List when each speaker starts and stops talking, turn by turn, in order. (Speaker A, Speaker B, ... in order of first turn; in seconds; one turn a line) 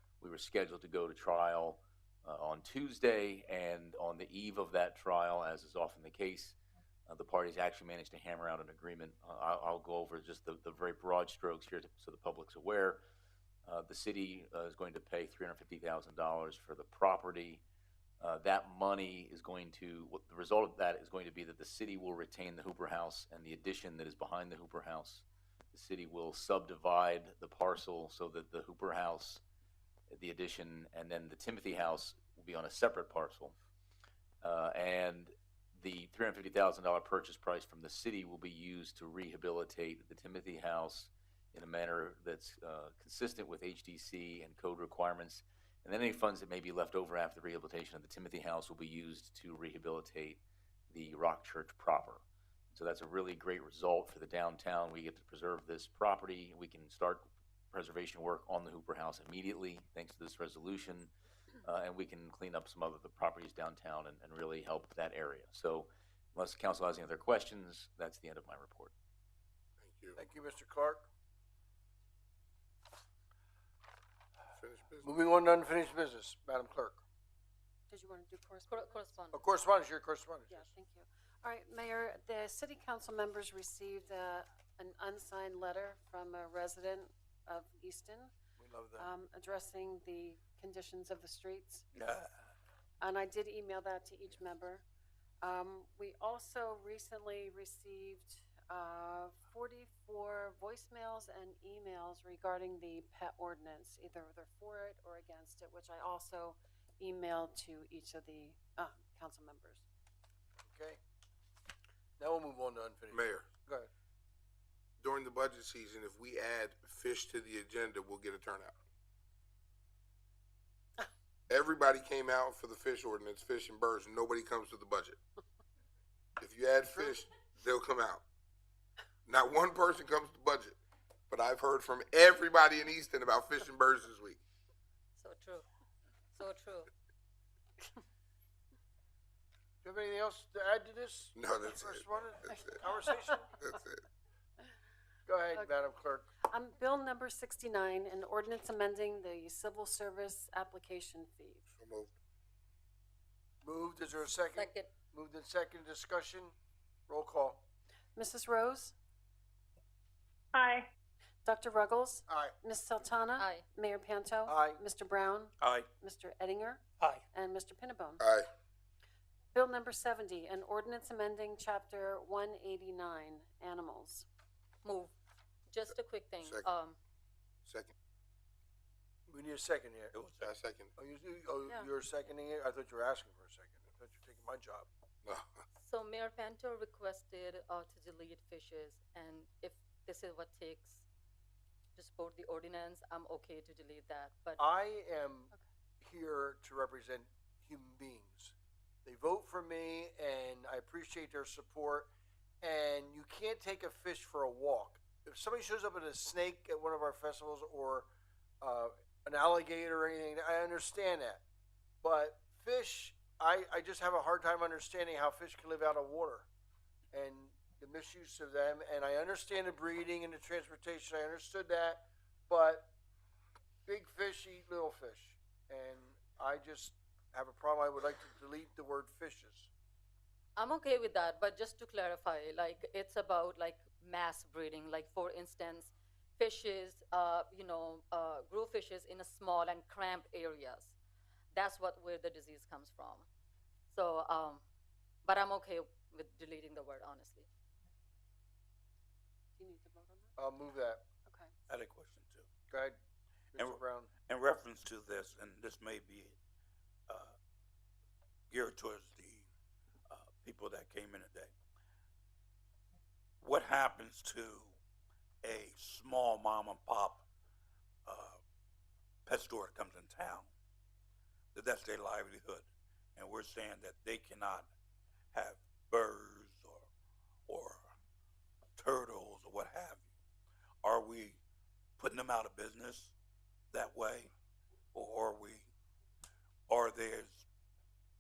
Speaker A: 0.2-13.0
Speaker A: 13.7-17.6
Speaker A: 18.2-29.4
Speaker A: 30.1-33.5
Speaker A: 34.4-61.1
Speaker A: 61.6-68.9
Speaker B: 69.8-70.2
Speaker C: 70.2-71.1
Speaker B: 74.6-75.1
Speaker C: 75.0-77.0
Speaker D: 77.9-79.2
Speaker E: 78.7-79.4
Speaker C: 79.3-80.7
Speaker D: 80.5-88.3
Speaker C: 88.6-89.1
Speaker D: 89.0-91.8
Speaker F: 92.0-92.3
Speaker D: 93.0-94.8
Speaker D: 95.4-109.8
Speaker C: 110.7-111.0
Speaker C: 112.2-113.9
Speaker B: 113.1-113.5
Speaker B: 115.0-118.7
Speaker B: 121.5-125.2
Speaker B: 126.4-128.2
Speaker B: 129.3-130.8
Speaker B: 131.3-134.4
Speaker E: 135.2-135.7
Speaker E: 136.3-136.9
Speaker C: 139.8-143.5
Speaker B: 141.3-142.8
Speaker B: 143.6-144.0
Speaker C: 145.3-146.3
Speaker D: 146.4-151.6
Speaker B: 151.7-152.1
Speaker C: 153.6-156.5
Speaker E: 154.5-154.9
Speaker C: 157.1-157.7
Speaker D: 158.2-158.9
Speaker D: 161.4-168.2
Speaker C: 162.3-162.6
Speaker E: 163.4-163.7
Speaker C: 164.5-164.8
Speaker F: 165.6-165.9
Speaker F: 167.0-167.2
Speaker B: 168.2-168.5
Speaker D: 169.5-174.3
Speaker E: 174.8-175.1
Speaker E: 175.7-177.0
Speaker B: 177.7-177.9
Speaker C: 179.3-180.2
Speaker F: 180.1-180.5
Speaker B: 180.4-180.9
Speaker C: 181.0-184.9
Speaker B: 185.2-185.6
Speaker E: 185.8-191.1
Speaker E: 192.0-194.6
Speaker C: 194.6-198.5
Speaker C: 199.1-202.1
Speaker C: 202.6-208.1
Speaker C: 208.6-211.4
Speaker C: 212.0-216.5
Speaker C: 217.1-222.9
Speaker C: 223.9-229.7
Speaker E: 230.6-241.0
Speaker E: 241.5-243.3
Speaker E: 243.9-244.6
Speaker E: 245.2-247.5
Speaker D: 249.6-250.3
Speaker C: 250.4-251.1
Speaker D: 251.3-251.5
Speaker F: 251.7-252.5
Speaker C: 252.7-253.0
Speaker C: 253.5-254.1
Speaker F: 253.6-256.4
Speaker F: 257.1-257.4
Speaker F: 258.5-259.5
Speaker F: 260.1-261.5
Speaker F: 263.4-264.8
Speaker F: 265.4-267.2
Speaker F: 268.1-268.4
Speaker F: 269.3-270.5
Speaker F: 271.5-274.7
Speaker F: 275.3-276.9
Speaker F: 277.5-277.9
Speaker F: 278.8-280.1
Speaker F: 280.8-281.4
Speaker F: 282.0-283.1
Speaker F: 283.7-284.3
Speaker F: 284.9-285.7
Speaker F: 286.7-287.5